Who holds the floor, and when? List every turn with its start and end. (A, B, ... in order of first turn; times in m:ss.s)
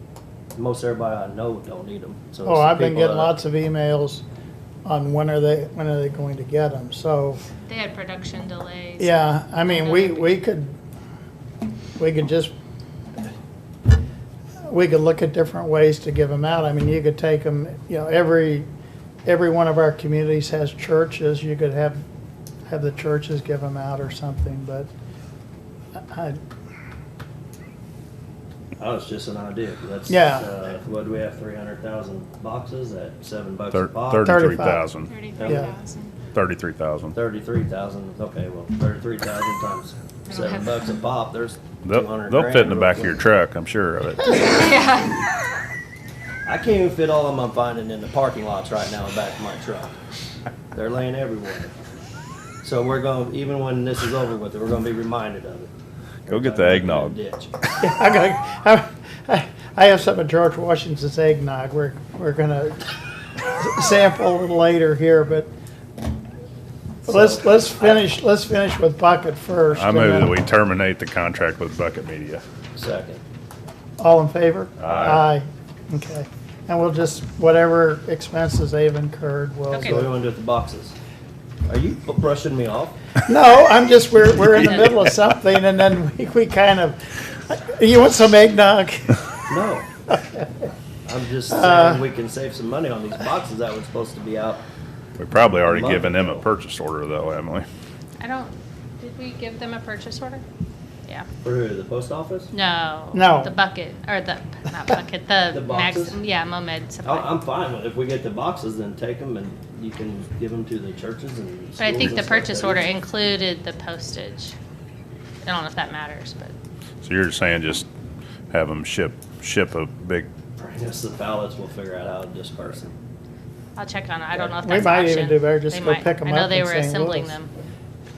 0:00.6-0:03.4 A
0:02.4-0:04.2 B
0:04.8-0:07.4 B
0:07.6-0:10.3 C
0:09.0-0:10.7 B
0:12.0-0:12.5 B
0:14.7-0:18.7 B
0:19.2-0:22.0 B
0:22.7-0:24.9 B
0:25.9-0:26.4 B
0:28.8-0:34.5 A
0:30.1-0:30.5 B
0:33.7-0:35.1 D
0:34.2-0:34.8 B
0:35.0-0:36.1 C
0:35.4-0:35.7 A
0:36.3-0:37.2 D
0:37.1-0:43.2 A
0:40.3-0:40.8 C
0:41.8-0:44.5 D
0:44.4-0:45.2 C
0:46.4-0:50.0 A
0:50.7-0:51.7 A
0:52.6-0:55.7 A
0:56.3-0:57.2 D
0:56.3-0:57.5 A
0:57.8-1:02.9 B
1:03.6-1:05.5 B
1:07.0-1:08.0 A
1:07.0-1:10.3 B
1:09.7-1:12.4 D
1:12.7-1:13.2 A
1:14.0-1:20.2 B
1:14.8-1:15.3 D
1:19.7-1:20.0 C
1:19.8-1:21.0 A
1:21.7-1:23.1 A
1:23.2-1:29.3 B
1:29.5-1:29.9 A
1:30.1-1:30.5 B
1:31.0-1:34.6 A
1:31.5-1:32.0 B
1:35.2-1:37.7 D
1:35.6-1:36.4 A
1:38.2-1:40.4 C
1:41.4-1:42.5 A
1:42.5-1:47.3 C
1:43.1-1:43.5 B
1:45.5-1:46.2 A
1:47.0-1:52.9 A
1:51.8-1:54.6 C
1:55.4-1:56.5 C
1:57.0-1:57.9 D
1:58.5-2:00.3 D
2:00.6-2:02.9 A
2:03.7-2:07.5 C
2:04.6-2:07.3 B